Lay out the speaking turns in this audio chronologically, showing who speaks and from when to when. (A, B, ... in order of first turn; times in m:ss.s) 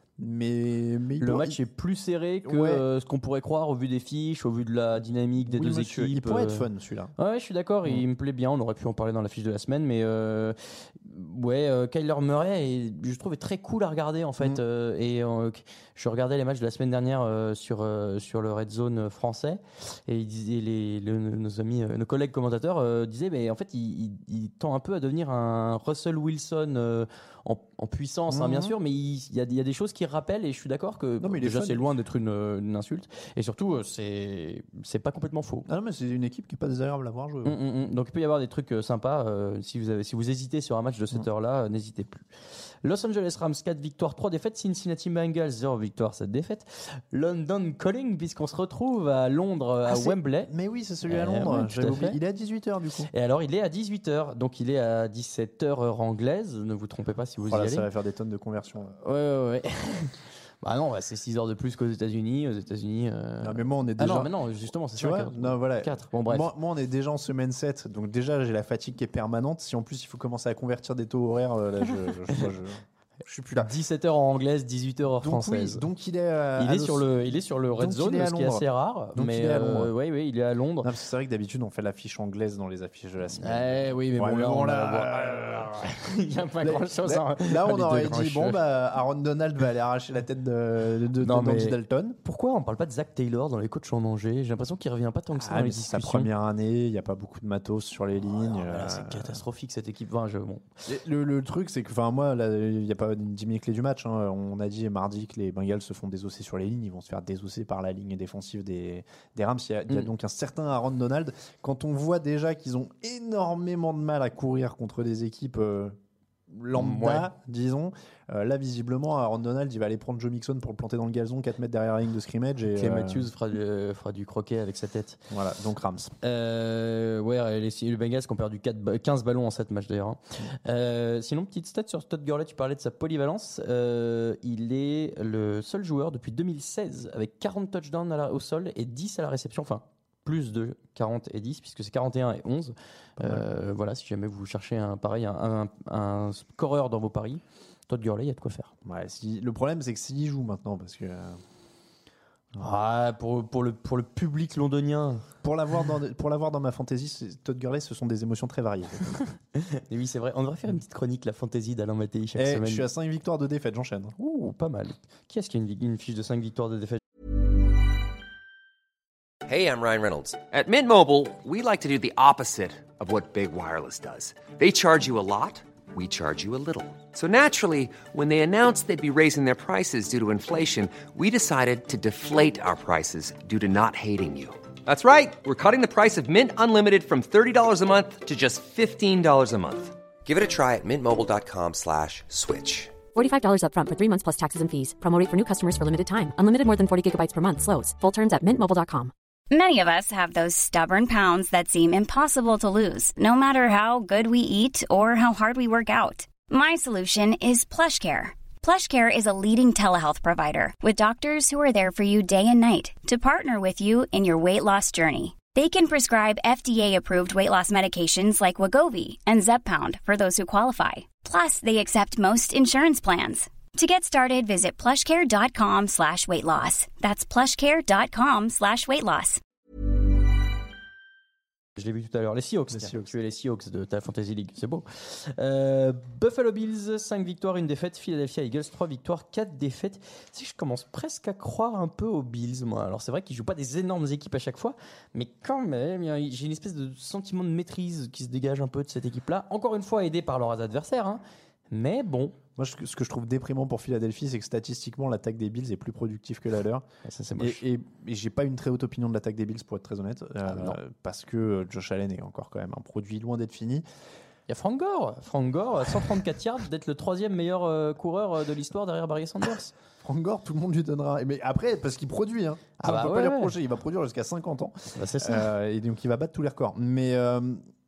0:00.2-0:01.6 A
0:01.2-0:06.7 B
0:02.4-0:02.8 A
0:05.4-0:07.1 A
0:07.2-0:35.7 B
0:28.3-0:28.7 A
0:31.2-0:31.8 A
0:35.7-0:37.6 A
0:37.4-0:42.2 B
0:42.8-0:50.5 B
0:49.9-0:53.1 A
0:51.1-0:52.2 B
0:53.1-0:57.9 B
0:57.5-0:59.0 A
0:59.0-1:06.5 B
1:03.4-1:04.3 A
1:05.0-1:13.7 A
1:11.9-1:12.5 B
1:13.6-1:15.8 B
1:15.2-1:19.9 A
1:16.6-1:20.9 B
1:20.8-1:25.9 A
1:23.4-1:28.6 B
1:26.6-1:32.2 A
1:31.2-1:36.3 B
1:35.4-1:39.4 A
1:38.3-1:40.7 B
1:40.9-1:56.0 A
1:56.5-2:03.3 A
1:56.7-1:57.3 B
2:02.8-2:05.2 B
2:05.3-2:06.2 A
2:06.2-2:28.7 B
2:23.2-2:23.4 A
2:28.8-2:31.4 A
2:32.6-2:35.2 B
2:35.4-2:39.1 A
2:39.6-2:42.8 B
2:42.4-2:44.2 A
2:44.2-2:47.0 B
2:49.5-3:13.0 C
3:13.1-3:19.1 D
3:19.5-3:49.4 E
3:51.8-4:12.4 B
3:52.7-3:53.1 A
4:12.6-4:16.8 A
4:17.0-4:17.6 B
4:17.4-4:23.8 A
4:20.4-4:20.8 B
4:24.5-4:29.7 B
4:30.0-4:37.6 A
4:32.8-4:33.5 B
4:34.9-4:35.5 B